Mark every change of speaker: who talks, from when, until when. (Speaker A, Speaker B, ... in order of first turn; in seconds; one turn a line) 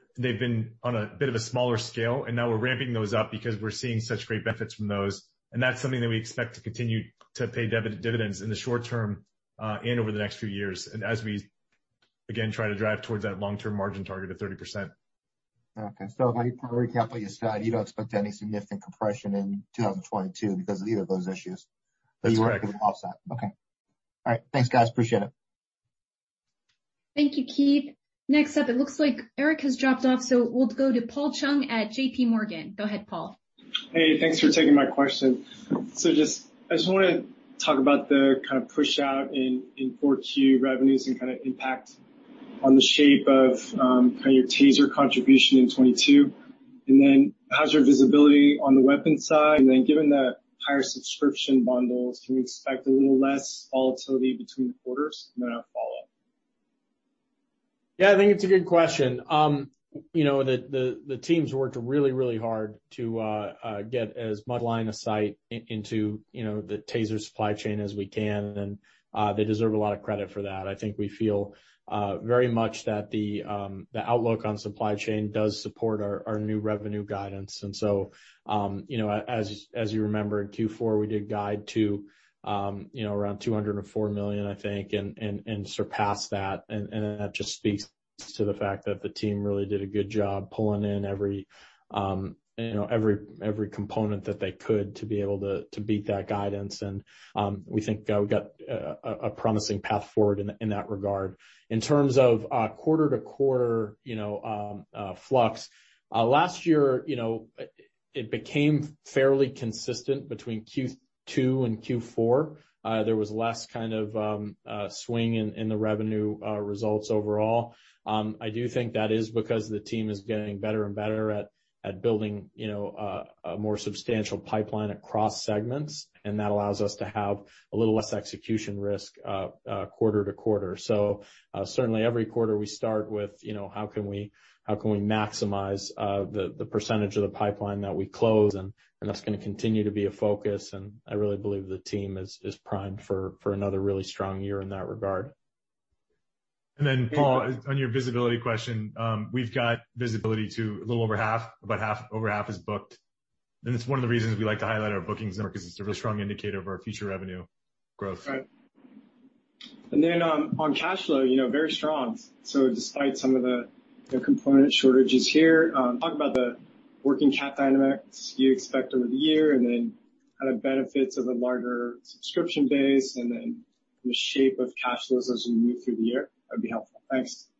Speaker A: 0.2-11.5
Speaker A: 12.3-14.9
Speaker B: 15.8-21.6
Speaker B: 22.2-23.5
Speaker A: 22.2-22.7
Speaker B: 24.2-25.3
Speaker C: 27.1-33.4
Speaker D: 33.9-42.0
Speaker D: 42.6-46.3
Speaker D: 46.9-56.0
Speaker E: 58.0-145.3
Speaker A: 146.8-153.0
Speaker A: 153.6-158.4
Speaker D: 159.9-177.5